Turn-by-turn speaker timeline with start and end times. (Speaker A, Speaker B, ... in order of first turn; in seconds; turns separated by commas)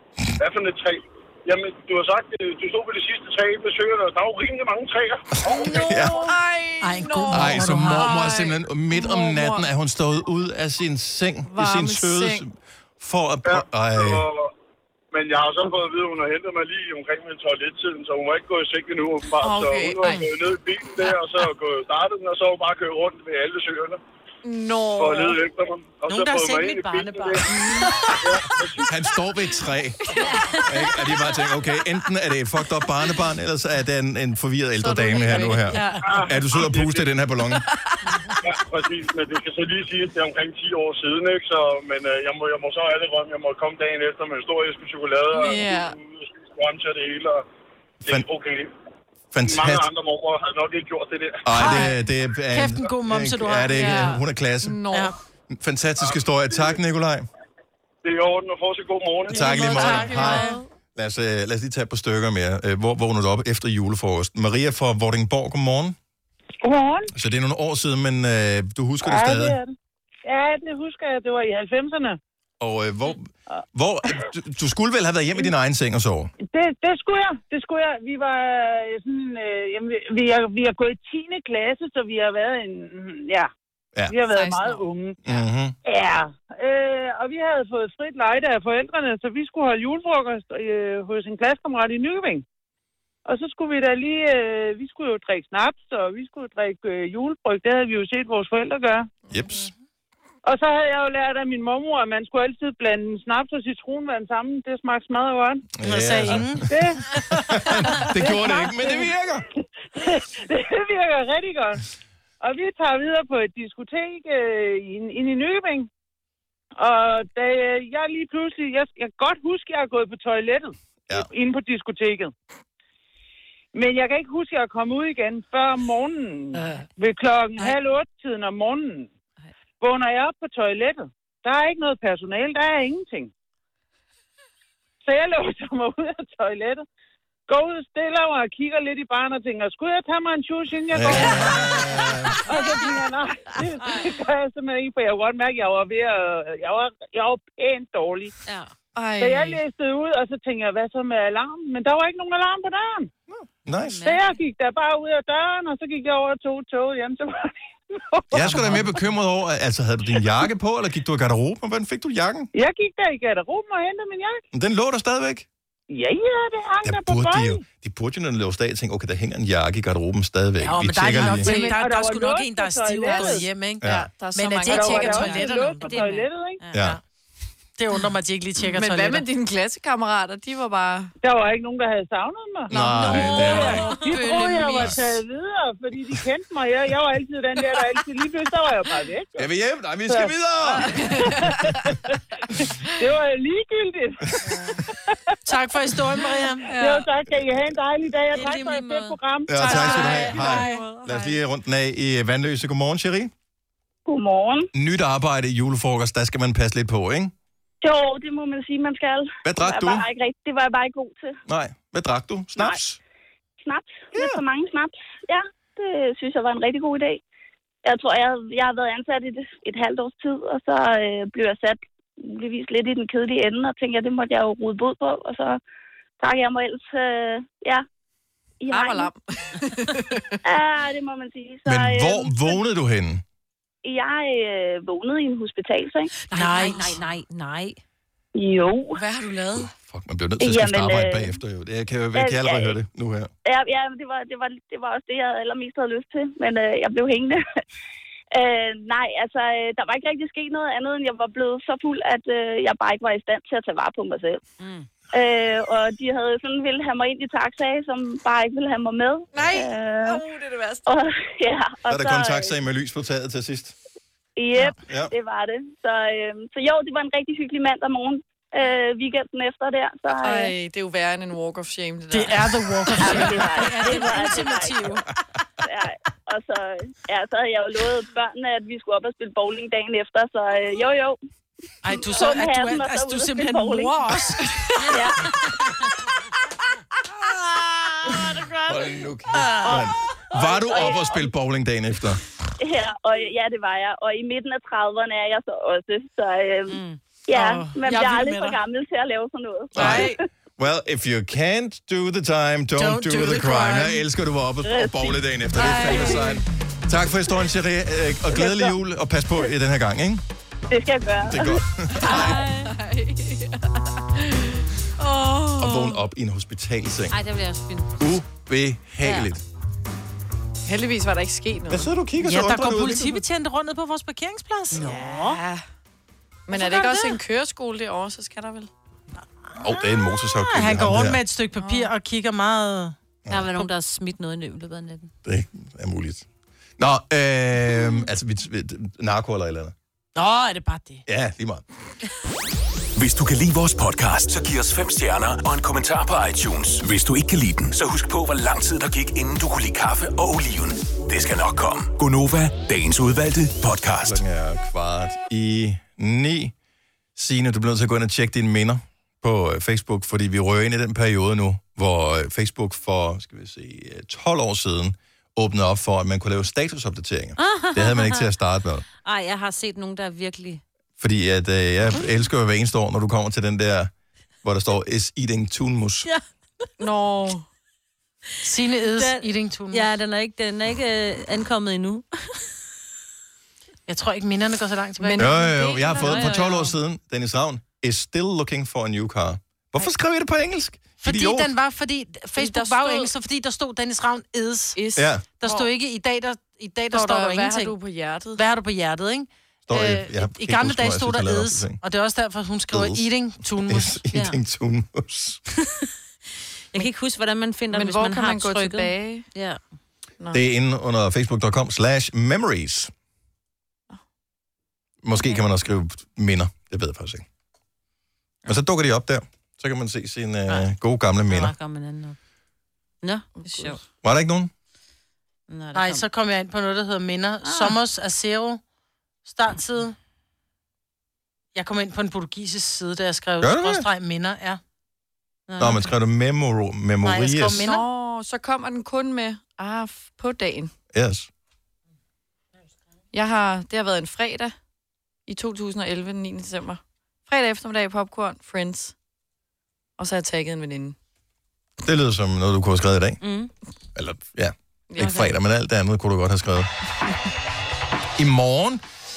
Speaker A: 0.4-5.7, Speaker B: 5.5-6.3, Speaker C: 5.5-9.7, Speaker D: 6.8-8.2, Speaker B: 7.3-14.3, Speaker C: 11.5-12.4, Speaker A: 13.5-14.5, Speaker A: 15.1-24.0, Speaker C: 19.4-20.3, Speaker C: 24.4-25.4, Speaker A: 25.0-27.6, Speaker D: 26.1-28.2, Speaker C: 27.5-27.9, Speaker A: 28.1-28.9, Speaker B: 28.9-37.6, Speaker C: 30.1-31.3, Speaker C: 34.8-36.2, Speaker D: 35.7-36.0, Speaker A: 36.0-37.1, Speaker C: 37.5-38.3, Speaker A: 38.4-47.5, Speaker C: 45.4-46.0, Speaker A: 48.0-48.7, Speaker B: 49.3-49.9, Speaker A: 49.4-51.5, Speaker B: 51.5-54.8, Speaker D: 51.6-51.9, Speaker C: 51.6-51.9, Speaker D: 52.5-54.1, Speaker C: 53.7-55.1, Speaker B: 55.5-57.3, Speaker A: 58.0-59.7, Speaker B: 59.3-66.0, Speaker D: 59.3-60.5, Speaker C: 59.3-60.6, Speaker E: 66.6-67.1, Speaker B: 67.1-69.6, Speaker E: 69.0-69.7, Speaker E: 70.2-72.2, Speaker B: 72.6-76.3, Speaker E: 76.5-83.5, Speaker E: 84.1-85.2, Speaker C: 84.3-84.8, Speaker B: 85.2-85.8, Speaker E: 85.8-92.4, Speaker E: 93.2-99.2, Speaker B: 99.3-99.7, Speaker E: 100.4-105.7, Speaker B: 105.8-109.4, Speaker D: 105.8-106.7, Speaker E: 106.7-107.1, Speaker E: 108.0-109.1, Speaker E: 110.0-111.8, Speaker E: 112.4-115.9, Speaker E: 116.8-122.3, Speaker E: 123.7-129.1, Speaker E: 129.8-133.3, Speaker E: 135.0-136.8, Speaker E: 137.5-148.3, Speaker B: 140.9-142.4, Speaker F: 143.8-144.1, Speaker F: 148.5-148.7, Speaker C: 148.9-149.6, Speaker E: 149.2-153.1, Speaker B: 153.3-154.0, Speaker F: 153.7-154.4, Speaker E: 154.0-158.8, Speaker B: 158.3-162.5, Speaker D: 158.4-158.9, Speaker E: 162.5-164.4, Speaker B: 164.5-165.5, Speaker E: 165.9-167.6, Speaker B: 166.8-171.6, Speaker D: 170.6-175.8, Speaker E: 171.3-173.5, Speaker C: 173.1-175.9, Speaker B: 173.8-174.1, Speaker E: 174.7-176.7, Speaker F: 175.6-176.7, Speaker B: 176.7-177.0, Speaker D: 176.7-177.0, Speaker D: 177.8-179.3, Speaker C: 178.6-181.1, Speaker E: 181.2-189.5, Speaker B: 182.7-183.9, Speaker F: 182.8-184.9, Speaker C: 183.2-184.9, Speaker B: 184.8-185.0, Speaker B: 189.4-191.9, Speaker E: 190.1-191.3, Speaker C: 190.7-192.0, Speaker E: 193.0-195.2, Speaker D: 195.4-196.7, Speaker C: 196.6-197.1, Speaker E: 196.8-200.2, Speaker F: 198.3-199.2, Speaker D: 198.4-198.7, Speaker B: 199.5-203.3, Speaker D: 199.6-200.8, Speaker C: 199.6-201.4, Speaker G: 204.1-204.7, Speaker B: 204.7-207.3, Speaker G: 207.8-211.4, Speaker B: 209.4-210.1, Speaker B: 211.5-213.0, Speaker G: 213.6-217.2, Speaker B: 214.1-214.4, Speaker G: 217.8-225.6, Speaker G: 226.2-227.8, Speaker G: 228.6-229.1, Speaker C: 228.7-230.4, Speaker G: 230.4-232.6, Speaker B: 231.7-233.2, Speaker G: 233.8-236.1, Speaker F: 236.3-237.8, Speaker D: 236.3-237.0, Speaker G: 238.3-239.0, Speaker C: 238.9-239.7, Speaker B: 239.5-243.3, Speaker G: 240.4-241.4, Speaker G: 242.1-242.8, Speaker G: 243.4-247.4, Speaker G: 248.3-254.4, Speaker F: 254.6-254.9, Speaker G: 255.1-260.2, Speaker C: 259.3-260.9, Speaker G: 260.9-262.5, Speaker B: 261.9-263.7, Speaker G: 264.4-270.5, Speaker B: 264.8-265.1, Speaker C: 270.1-274.2, Speaker D: 272.1-275.1, Speaker G: 273.1-275.0, Speaker G: 275.6-281.2, Speaker D: 281.8-285.0, Speaker G: 282.1-284.1, Speaker G: 284.9-285.2, Speaker B: 288.7-292.2, Speaker G: 290.4-291.2, Speaker G: 292.6-300.2, Speaker F: 296.7-297.0, Speaker D: 297.3-298.6, Speaker B: 299.7-310.2, Speaker D: 299.8-300.2, Speaker D: 302.8-304.0, Speaker G: 304.6-306.1, Speaker C: 305.6-306.4, Speaker G: 308.3-308.6, Speaker G: 310.7-311.6, Speaker B: 311.2-312.4, Speaker C: 311.9-316.0, Speaker F: 312.1-312.7, Speaker B: 315.6-317.2, Speaker F: 317.1-318.0, Speaker B: 318.0-319.4, Speaker F: 319.0-319.3, Speaker C: 320.7-321.9, Speaker B: 321.7-323.2, Speaker D: 322.2-325.1, Speaker F: 324.7-325.4, Speaker C: 325.1-325.6, Speaker C: 326.5-328.7, Speaker F: 326.5-327.2, Speaker B: 329.6-331.2, Speaker D: 330.4-332.9, Speaker C: 331.6-331.9, Speaker B: 333.3-333.5, Speaker F: 333.3-335.1, Speaker B: 335.2-336.3, Speaker B: 336.8-339.8, Speaker D: 340.1-341.0, Speaker B: 341.1-341.6, Speaker H: 343.0-354.2, Speaker B: 354.0-356.5, Speaker B: 357.2-368.9, Speaker F: 367.4-368.2, Speaker F: 369.1-370.6, Speaker B: 371.0-373.9, Speaker B: 374.4-376.1, Speaker C: 376.8-377.5, Speaker D: 378.4-379.9, Speaker F: 378.9-382.1, Speaker D: 383.9-386.4, Speaker C: 385.0-386.3, Speaker B: 385.2-391.5, Speaker F: 385.9-386.7, Speaker D: 391.0-394.8, Speaker C: 392.4-393.1, Speaker C: 394.8-395.7, Speaker B: 395.0-395.2, Speaker D: 395.4-397.7, Speaker C: 396.9-398.4, Speaker D: 398.4-404.0, Speaker B: 399.7-401.8, Speaker B: 402.7-403.1, Speaker B: 403.6-405.4, Speaker F: 404.1-404.4, Speaker F: 406.7-409.6, Speaker C: 407.7-409.3, Speaker B: 410.3-412.9, Speaker B: 415.0-417.2, Speaker B: 418.5-421.5, Speaker F: 421.3-422.2, Speaker F: 423.0-423.8, Speaker C: 423.4-423.8, Speaker B: 424.0-424.5, Speaker F: 425.5-426.1, Speaker D: 425.7-428.6, Speaker F: 427.4-427.7, Speaker D: 429.2-430.0, Speaker D: 431.6-434.6, Speaker B: 433.4-433.9, Speaker F: 435.5-435.9, Speaker B: 435.6-437.7, Speaker D: 437.0-437.8, Speaker C: 437.5-440.7, Speaker B: 440.9-441.3, Speaker C: 443.1-444.6, Speaker C: 445.3-448.9, Speaker C: 450.0-451.0, Speaker B: 451.8-453.2, Speaker F: 453.2-453.5, Speaker B: 454.0-456.7, Speaker C: 454.9-455.3, Speaker B: 458.2-458.8